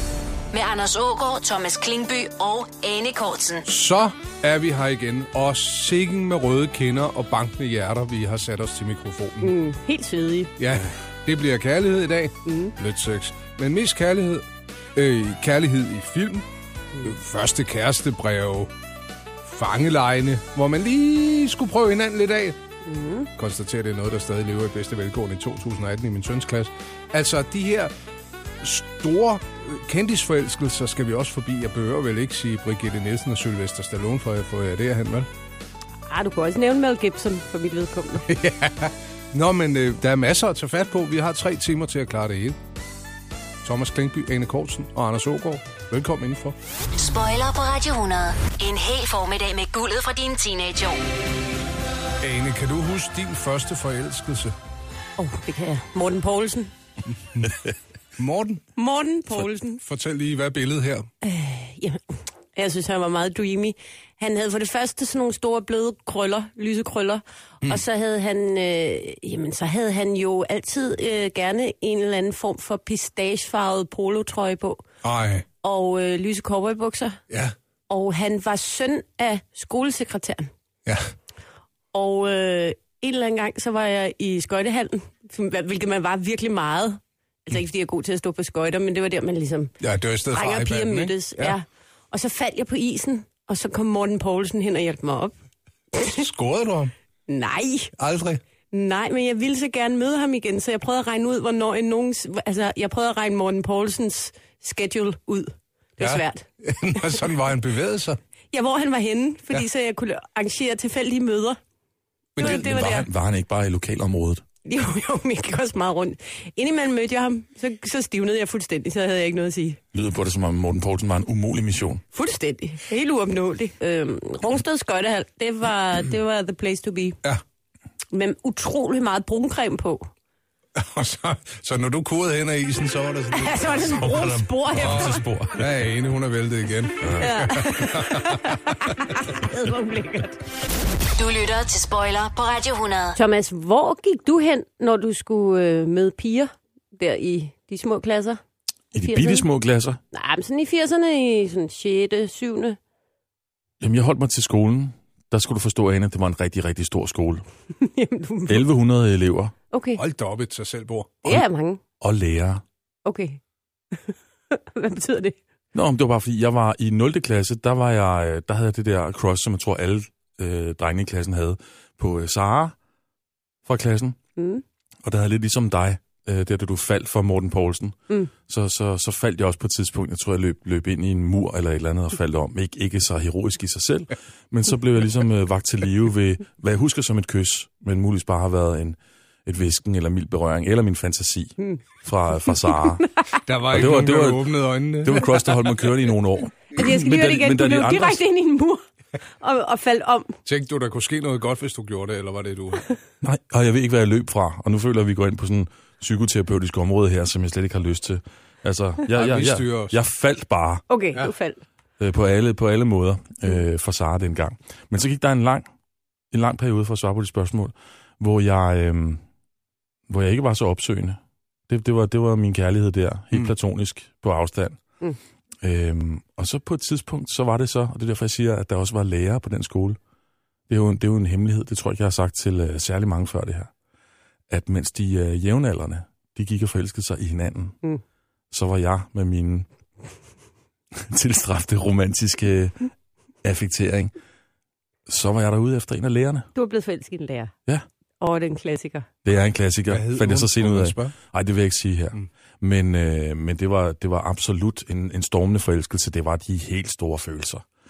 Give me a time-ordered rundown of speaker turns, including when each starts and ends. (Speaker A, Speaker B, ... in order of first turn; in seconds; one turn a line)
Speaker A: 0.5-3.7
Speaker B: 3.7-9.5
Speaker C: 9.4-10.5
Speaker B: 10.6-16.5
Speaker C: 12.5-12.7
Speaker B: 17.0-18.7
Speaker B: 19.4-22.6
Speaker C: 22.9-23.3
Speaker B: 23.4-27.9
Speaker B: 28.6-35.3
Speaker C: 36.1-38.3
Speaker B: 38.3-42.6
Speaker B: 43.6-46.5
Speaker A: 46.9-51.0
Speaker B: 52.2-54.5
Speaker C: 55.2-56.7
Speaker B: 57.2-57.5
Speaker B: 58.2-58.6
Speaker C: 58.8-59.8
Speaker B: 59.8-61.1
Speaker C: 61.2-74.8
Speaker B: 75.0-75.5
Speaker C: 75.6-77.2
Speaker C: 77.9-80.5
Speaker C: 81.9-89.7
Speaker B: 89.8-91.6
Speaker C: 90.3-95.3
Speaker B: 96.0-96.9
Speaker C: 97.3-97.9
Speaker B: 98.0-98.4
Speaker C: 98.7-106.5
Speaker B: 106.0-108.2
Speaker C: 108.5-111.6
Speaker B: 112.4-112.7
Speaker C: 112.4-113.1
Speaker D: 112.4-114.5
Speaker C: 114.7-119.8
Speaker D: 119.9-122.0
Speaker C: 122.1-127.2
Speaker C: 128.1-130.1
Speaker B: 130.8-138.8
Speaker C: 133.3-135.3
Speaker D: 134.0-135.8
Speaker D: 137.0-137.5
Speaker C: 137.2-140.4
Speaker A: 141.2-143.2
Speaker C: 143.2-148.4
Speaker C: 148.9-149.5
Speaker D: 148.9-150.0
Speaker C: 150.1-152.8
Speaker D: 153.8-157.4
Speaker C: 157.8-158.7
Speaker D: 158.5-159.5
Speaker C: 159.7-160.0
Speaker B: 160.0-161.3
Speaker C: 161.2-161.8
Speaker D: 162.0-162.6
Speaker C: 163.1-163.4
Speaker C: 164.0-165.4
Speaker D: 165.7-172.8
Speaker D: 173.7-174.2
Speaker C: 174.4-174.6
Speaker D: 175.0-193.1
Speaker B: 193.5-195.3
Speaker D: 193.7-198.2
Speaker C: 196.7-198.8
Speaker C: 199.4-200.4
Speaker B: 200.4-202.8
Speaker D: 203.2-210.8
Speaker B: 209.1-210.0
Speaker C: 210.9-211.6
Speaker D: 212.0-215.7
Speaker D: 216.3-219.2
Speaker D: 220.1-224.8
Speaker D: 225.6-230.0
Speaker D: 230.7-233.7
Speaker D: 234.5-237.8
Speaker D: 238.5-239.7
Speaker D: 240.9-242.9
Speaker D: 243.4-244.1
Speaker D: 245.1-246.5
Speaker C: 246.6-247.5
Speaker C: 248.2-249.1
Speaker D: 249.2-257.6
Speaker B: 249.9-251.1